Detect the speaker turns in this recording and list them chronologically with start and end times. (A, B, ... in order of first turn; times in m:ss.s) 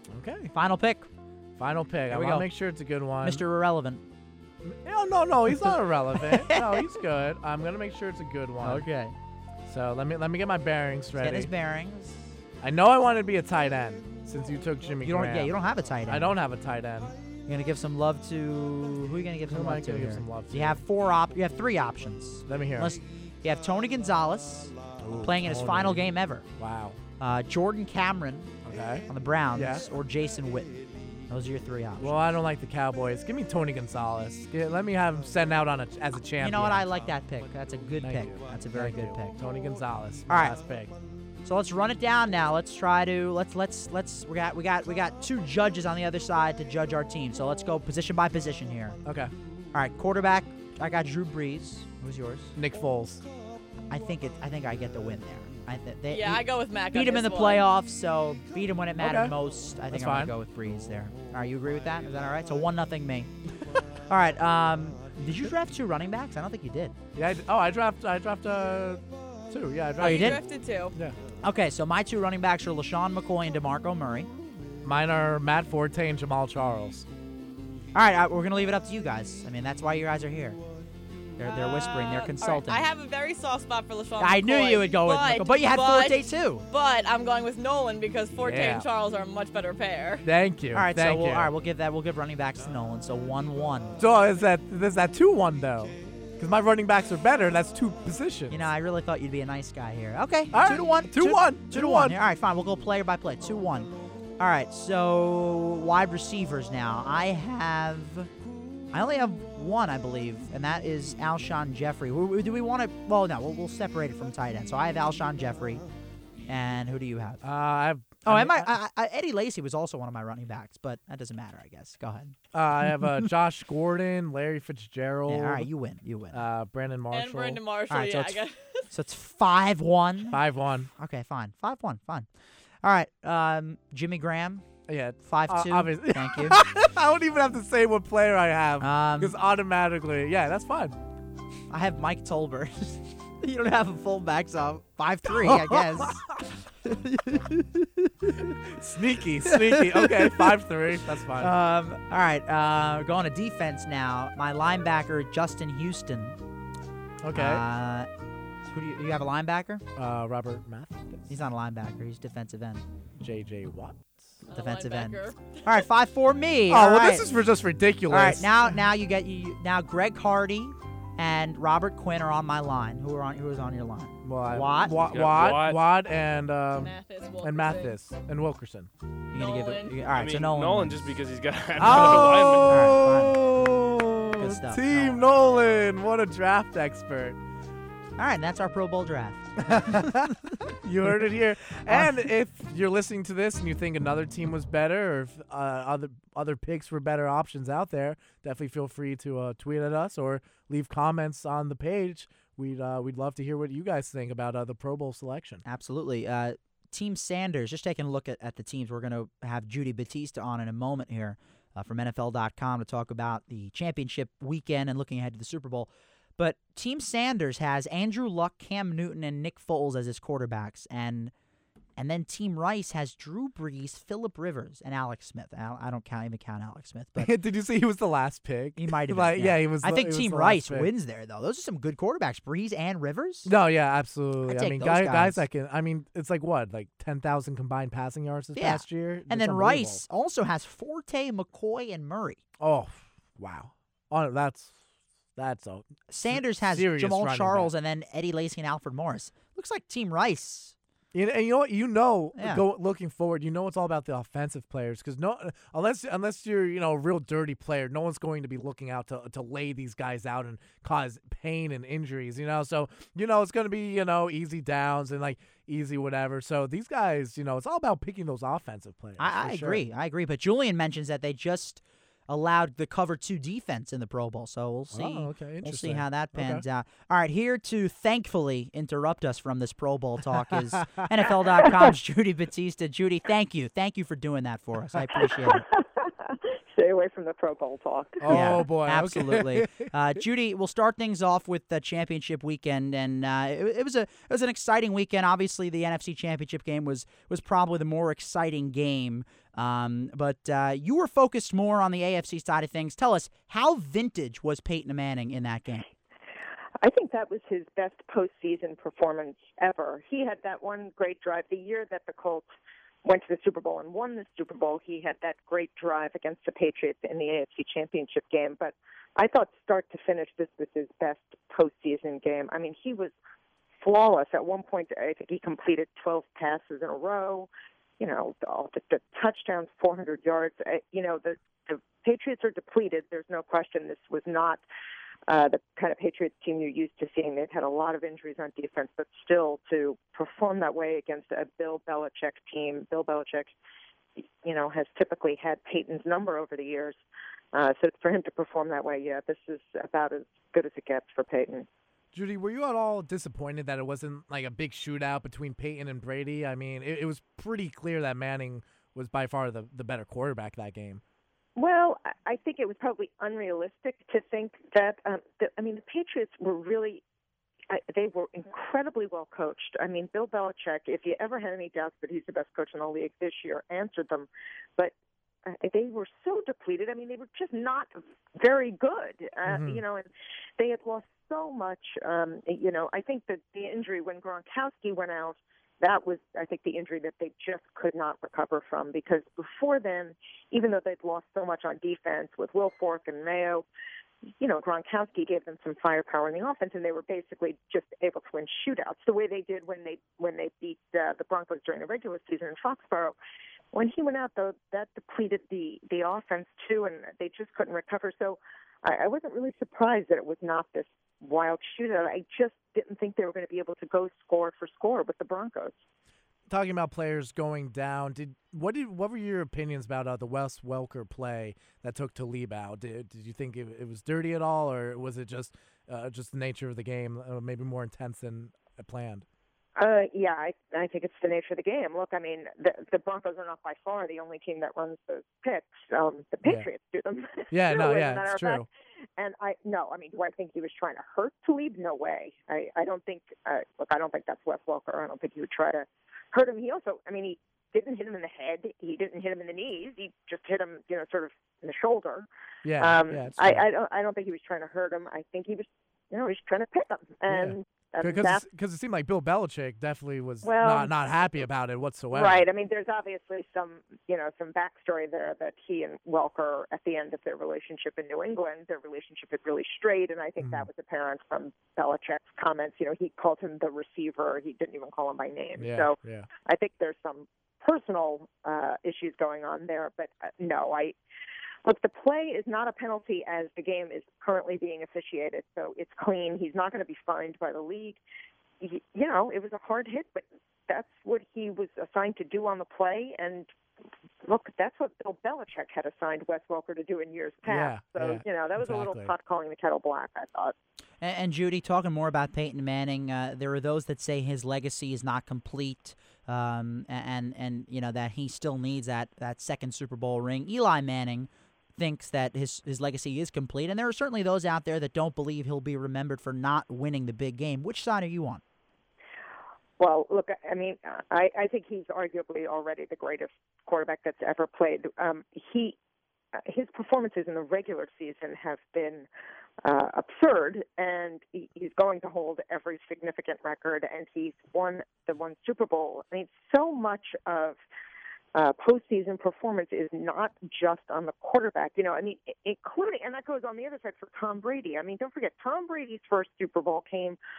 0:00.1-0:00.5 A
0:00.5-0:01.1 B
0:01.6-0:03.4 A
0:02.1-0:02.5 B
0:03.2-0:04.0 B
0:04.6-0:08.9 A
0:06.2-0:07.0 B
0:08.6-0:09.2 B
0:09.7-0:11.5 A
0:11.2-0:12.3 B
0:12.6-0:17.2 A
0:15.0-0:16.3 B
0:17.5-0:26.4 B
0:19.5-0:20.8 A
0:22.5-0:23.0 A
0:25.0-0:27.0 A
0:27.2-0:32.1 B
0:28.6-0:29.9 A
0:32.0-0:37.0 A
0:36.4-0:39.3 B
0:38.0-0:41.0 A
0:40.3-0:40.6 B
0:41.4-0:49.0 B
0:49.0-0:49.3 A
0:49.7-0:52.5 B
0:52.6-0:53.2 A
0:53.9-1:03.3 B
0:56.1-0:57.7 C
0:59.0-0:59.4 A
0:59.9-1:00.4 A
1:04.1-1:07.0 B
1:07.1-1:11.2 A
1:10.0-1:10.4 B
1:10.0-1:11.0 C
1:11.4-1:14.3 B
1:14.8-1:17.1 A
1:17.9-1:20.6 B
1:21.4-1:22.8 B
1:21.4-1:30.3 C
1:24.2-1:26.7 B
1:28.4-1:28.9 A
1:30.2-1:31.5 A
1:30.7-1:34.0 B
1:34.0-1:38.6 A
1:38.5-1:48.3 B
1:40.5-1:42.2 A
1:48.9-1:55.8 B
1:56.5-1:57.4 B
1:57.4-1:58.8 A
1:58.2-2:02.4 B
2:02.5-2:05.7 A
2:02.9-2:03.3 B
2:05.3-2:06.4 B
2:06.3-2:07.6 A
2:07.1-2:08.8 C
2:07.9-2:10.4 B
2:10.3-2:10.9 A
2:11.0-2:12.3 B
2:12.8-2:14.6 B
2:14.9-2:21.0 A
2:15.2-2:16.6 B
2:18.8-2:19.3 B
2:21.7-2:26.3 B
2:25.3-2:26.3 A
2:26.8-2:28.8 B
2:28.4-2:31.5 A
2:29.4-2:30.6 B
2:31.4-2:36.4 B
2:37.2-2:37.6 A
2:37.3-2:38.1 B
2:38.7-2:39.8 B
2:40.0-2:41.3 A
2:41.3-2:42.8 B
2:43.2-2:44.2 A
2:44.5-2:45.8 C
2:44.5-2:47.3 B
2:46.7-2:48.8 A
2:48.1-2:54.9 B
2:54.2-2:58.9 A
2:54.9-2:55.8 D
2:56.8-2:58.0 C
2:59.3-3:01.0 B
2:59.4-3:00.0 C
3:00.1-3:02.9 D
3:01.8-3:07.4 A
3:01.8-3:03.4 B
3:04.4-3:05.3 B
3:08.2-3:10.6 B
3:09.7-3:25.6 A
3:11.7-3:12.3 B
3:25.6-3:41.3 B
3:42.0-3:47.3 B
3:47.2-3:50.9 A
3:48.8-3:53.5 B
3:53.4-4:00.0 A
3:54.4-3:55.4 B
3:58.6-4:02.4 B
4:02.6-4:04.8 A
4:05.4-4:07.7 A
4:06.1-4:10.8 B
4:11.1-4:29.8 A
4:12.4-4:12.6 B
4:29.2-4:45.7 B
4:34.9-4:36.6 A
4:40.4-4:41.5 A
4:45.4-4:48.5 E
4:48.2-4:49.9 A
4:48.3-5:05.9 B
5:06.8-5:12.5 E
5:13.0-5:23.1 E
5:23.8-5:27.5 E
5:28.0-5:34.6 E
5:35.3-5:43.5 E
5:44.4-5:47.0 E
5:47.5-5:51.7 E
5:52.1-6:01.0 A
6:01.6-6:07.0 E
6:07.7-6:14.9 E
6:15.5-6:33.7 E
6:19.5-6:19.8 A
6:34.4-6:43.2 E
6:43.7-6:55.8 E
6:56.5-7:09.3 A
7:09.8-7:18.7 E
7:17.5-7:18.7 A
7:19.2-7:32.3 E
7:32.6-7:33.6 A
7:32.8-7:38.4 E
7:37.3-7:42.5 A
7:40.4-7:40.9 E
7:42.1-8:01.0 E
7:50.4-7:50.7 A
7:55.6-7:56.3 A
8:01.6-8:08.0 E
8:08.6-8:13.5 E
8:14.2-8:20.5 E
8:17.4-8:19.1 A
8:21.0-8:38.4 B
8:39.8-8:45.8 E
8:46.4-8:49.1 E
8:49.6-8:57.6 E
8:58.4-9:07.2 E